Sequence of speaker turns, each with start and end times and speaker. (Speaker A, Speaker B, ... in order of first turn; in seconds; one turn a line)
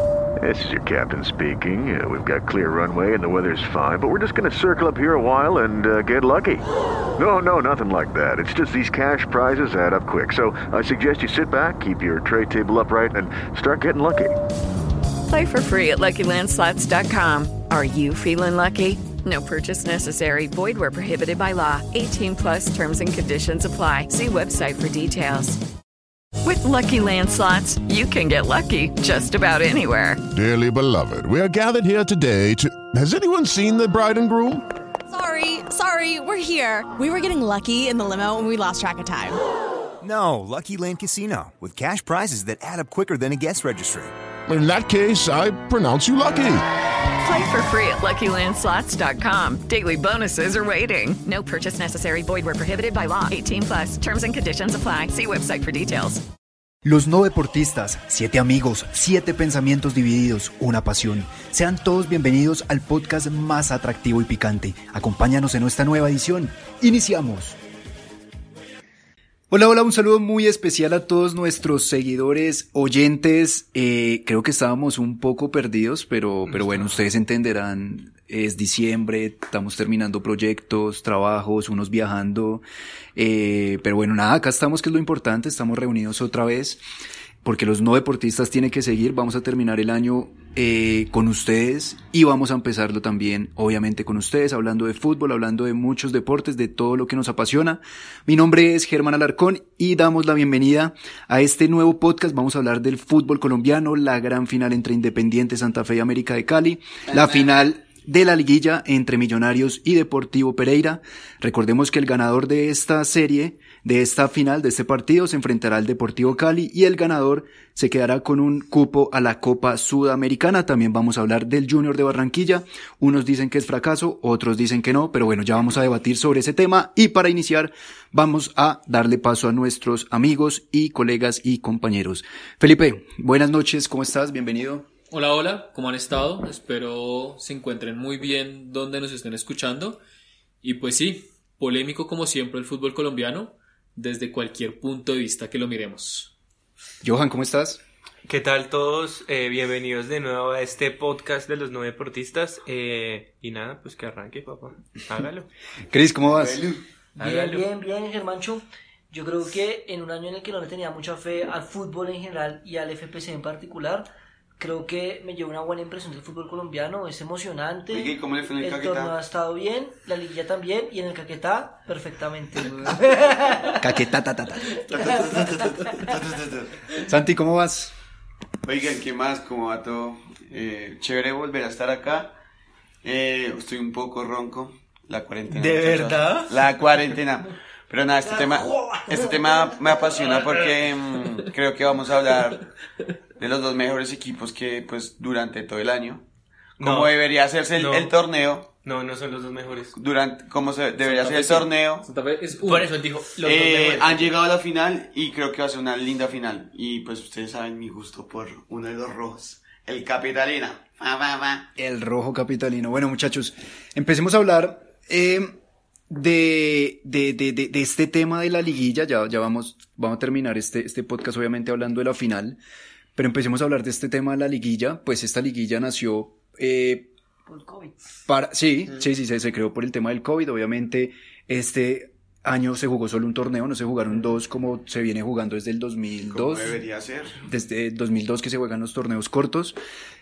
Speaker A: 0.4-6.7
Speaker A: 7.2-14.4
Speaker B: 15.3-25.6
Speaker B: 26.4-30.2
Speaker C: 30.3-34.7
Speaker D: 35.1-39.4
Speaker E: 40.0-44.1
Speaker C: 44.5-46.7
Speaker B: 47.2-56.2
Speaker F: 56.8-67.6
Speaker F: 69.5-82.6
Speaker G: 76.5-77.0
Speaker F: 83.2-86.8
Speaker F: 87.4-134.9
Speaker H: 135.1-140.0
Speaker H: 140.6-146.3
Speaker F: 147.0-147.8
Speaker G: 148.2-155.5
Speaker F: 155.9-156.7
Speaker I: 156.4-156.8
Speaker J: 157.2-164.1
Speaker G: 157.2-157.7
Speaker J: 164.6-173.8
Speaker I: 167.9-169.2
Speaker F: 173.8-174.9
Speaker I: 174.9-176.9
Speaker F: 177.0-177.9
Speaker I: 178.6-182.3
Speaker I: 183.0-192.7
Speaker G: 185.5-186.6
Speaker J: 188.2-190.4
Speaker I: 193.4-196.2
Speaker G: 196.8-197.1
Speaker I: 196.8-198.7
Speaker G: 197.7-198.1
Speaker G: 198.8-199.9
Speaker I: 199.9-202.1
Speaker H: 201.0-203.0
Speaker G: 202.6-204.4
Speaker I: 203.4-211.7
Speaker F: 211.8-215.5
Speaker F: 216.1-222.6
Speaker F: 223.2-227.1
Speaker J: 227.5-227.9
Speaker F: 228.3-236.8
Speaker I: 236.3-237.4
Speaker F: 237.4-239.8